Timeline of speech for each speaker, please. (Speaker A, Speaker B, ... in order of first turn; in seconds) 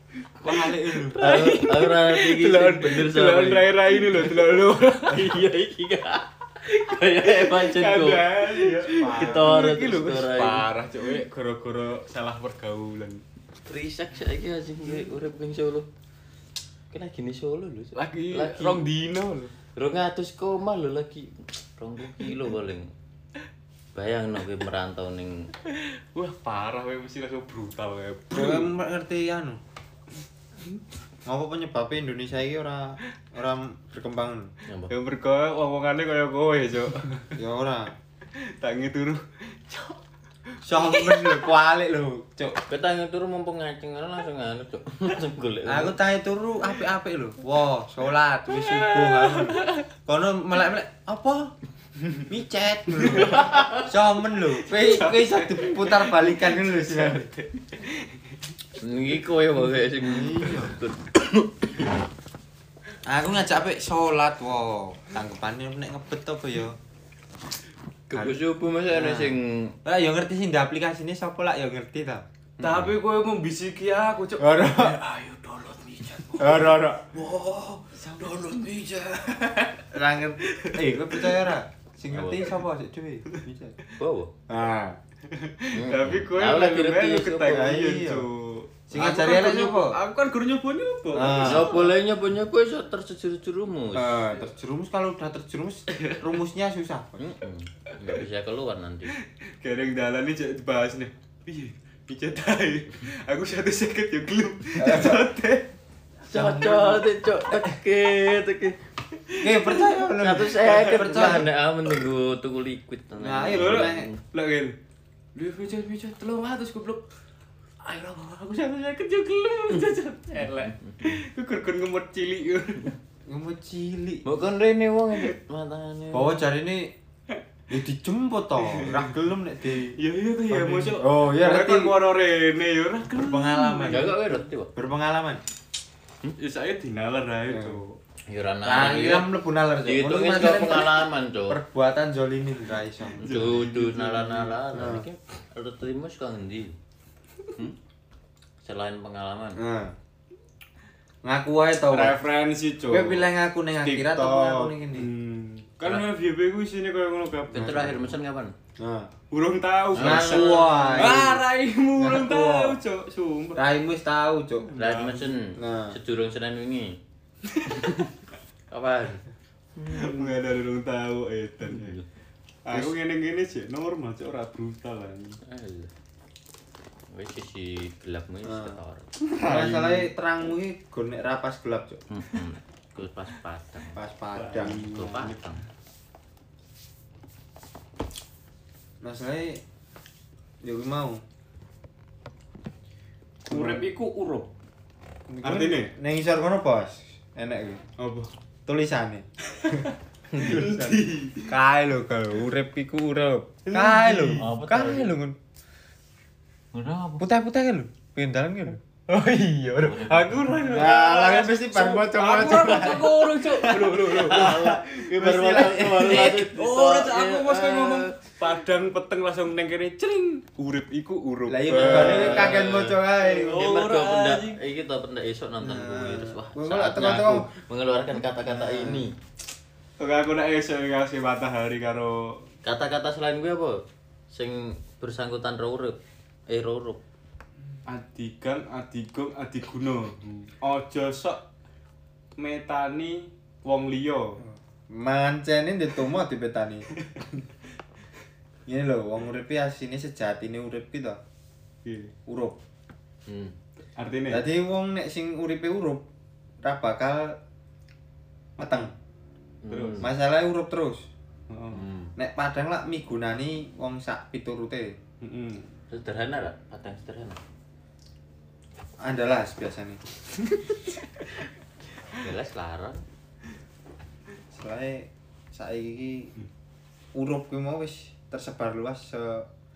Speaker A: 0.4-1.2, 8.9-9.6, 28.3-29.6, 31.2-34.5, 37.4-37.9, 40.6-42.6, 45.7-51.5, 52.3-57.3, 60.0-60.8, 63.0-66.8, 68.1-72.2, 74.4-75.0, 76.4-77.1, 78.0-78.4, 79.9-83.8, 84.5-85.0, 87.5-88.3, 88.9-90.0, 91.1-91.8, 93.9-97.2, 104.8-105.3, 106.3-107.0, 109.4-111.5, 113.1-114.1, 123.3-124.3, 126.1-126.9, 127.7-130.0, 130.5-132.0, 133.2-135.4, 137.5-137.8, 138.6-143.2, 144.7-145.1, 149.6-149.9, 151.2-152.2, 152.9-155.1, 157.5-157.9, 158.8-159.1, 159.9-161.4, 161.9-162.8, 163.6-164.7, 165.6-165.9, 178.4-178.8, 179.4-182.0, 183.9-184.8, 189.0-189.6, 190.6-191.2, 193.5-193.8, 195.3-197.8, 198.7-199.2, 200.3-205.4, 207.2-208.8, 210.6-213.2, 213.8-216.4, 221.5-223.7, 225.6-227.5, 228.2-229.1, 244.5-246.9, 248.7-251.2, 252.2-252.6, 254.3-256.1, 256.6-257.4, 258.6-258.9, 260.0-261.1, 262.1-265.0, 269.0-270.0, 274.5-276.3, 277.1-279.5
Speaker B: 0.4-5.4, 7.0-13.2, 17.9-19.5, 25.7-28.7, 34.9-37.4, 38.6-40.0, 40.7-41.5, 48.5-49.8, 53.0-53.4, 54.7-58.0, 72.6-79.9, 80.4-81.5, 85.3-91.9, 95.9-96.3, 99.6-105.7, 109.3-110.0, 110.6-111.3, 113.5-114.8, 115.3-117.0, 117.8-123.0, 128.6-129.2, 129.8-134.3, 136.3-138.0, 143.1-144.6, 151.9-158.0, 159.3-163.6, 164.6-165.4, 167.5-168.1, 169.8-172.0, 172.6-175.4, 179.2-180.1, 184.3-185.6, 193.5-194.5, 195.4-195.9, 198.0-198.3, 199.6-201.5, 203.7-204.5, 209.1-214.8, 216.0-224.6, 230.0-232.4, 237.9-241.4, 242.4-244.4, 246.9-247.4, 251.8-252.1, 253.9-254.5, 258.6-258.9, 259.7-260.1, 261.5-261.8, 265.2-265.7
Speaker C: 1.1-10.7, 13.6-15.9, 16.9-18.9, 19.7-22.9, 23.9-25.5, 34.7-34.9, 42.6-46.0, 53.2-53.8, 58.8-61.8, 68.1-69.8, 72.6-72.9, 82.1-82.5, 84.0-84.3, 85.7-87.7, 91.3-94.2, 97.2-99.1, 106.3-108.8, 110.2-114.2, 120.8-121.2, 124.2-126.4, 133.9-134.7, 138.3-141.6, 143.2-146.8, 148.6-149.6, 157.5-158.5, 159.9-161.2, 164.8-167.0, 167.7-168.1, 168.7-169.2, 169.8-170.3, 171.7-172.0, 175.4-175.9, 177.1-179.1, 182.1-184.0, 184.7-185.6, 204.4-205.2, 206.7-207.2, 209.8-210.5, 213.5-218.1, 221.7-229.2, 232.6-237.0, 253.3-253.6, 259.6-260.1, 261.7-262.1, 265.9-267.4, 272.1-273.0